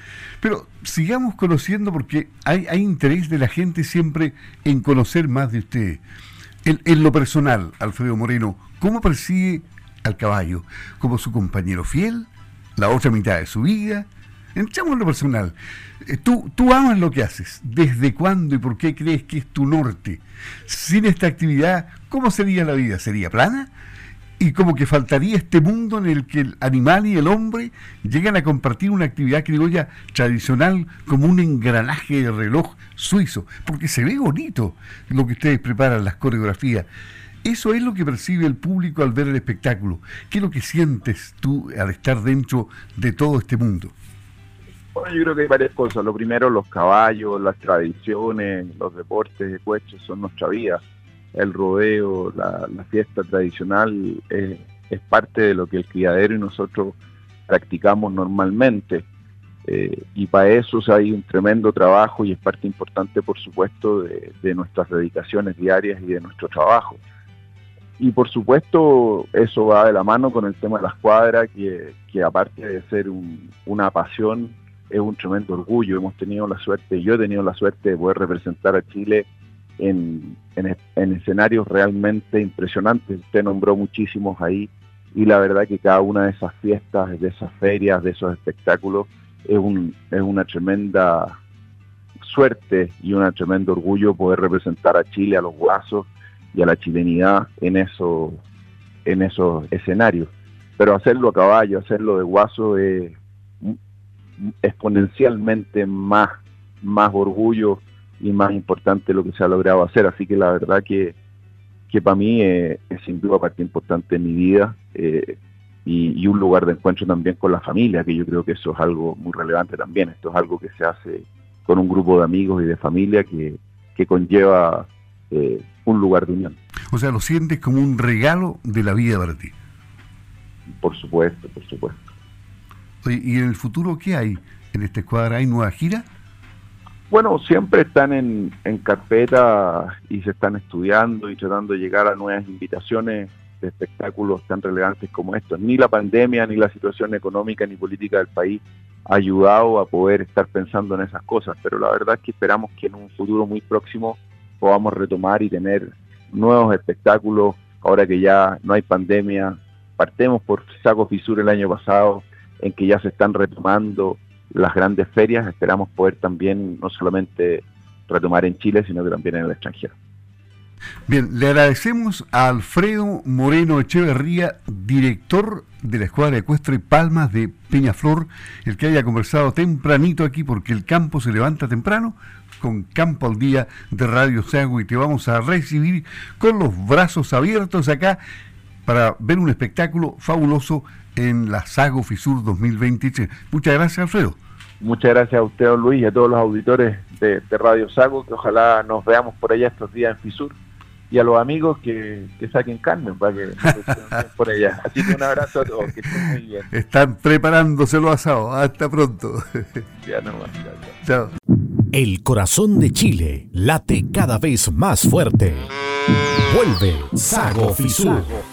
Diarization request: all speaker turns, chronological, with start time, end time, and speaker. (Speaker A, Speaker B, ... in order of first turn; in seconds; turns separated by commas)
Speaker A: 0.4-6.0, Speaker A: 6.7-23.7, Speaker A: 24.4-36.9, Speaker A: 37.4-43.9, Speaker B: 45.0-50.8, Speaker B: 51.3-57.0, Speaker B: 57.5-59.1, Speaker B: 59.6-67.0, Speaker B: 68.0-91.4, Speaker B: 92.2-98.4, Speaker B: 99.0-103.8, Speaker B: 104.4-111.2, Speaker B: 111.9-126.6, Speaker A: 126.9-129.5, Speaker B: 130.8-132.0, Speaker A: 133.0-136.1, Speaker B: 137.1-170.0, Speaker A: 171.1-188.2, Speaker A: 188.9-194.4, Speaker B: 194.8-200.6, Speaker B: 201.1-206.7, Speaker A: 206.7-209.8, Speaker B: 210.0-211.0, Speaker A: 211.0-211.3, Speaker C: 211.9-215.7, Speaker C: 216.4-218.4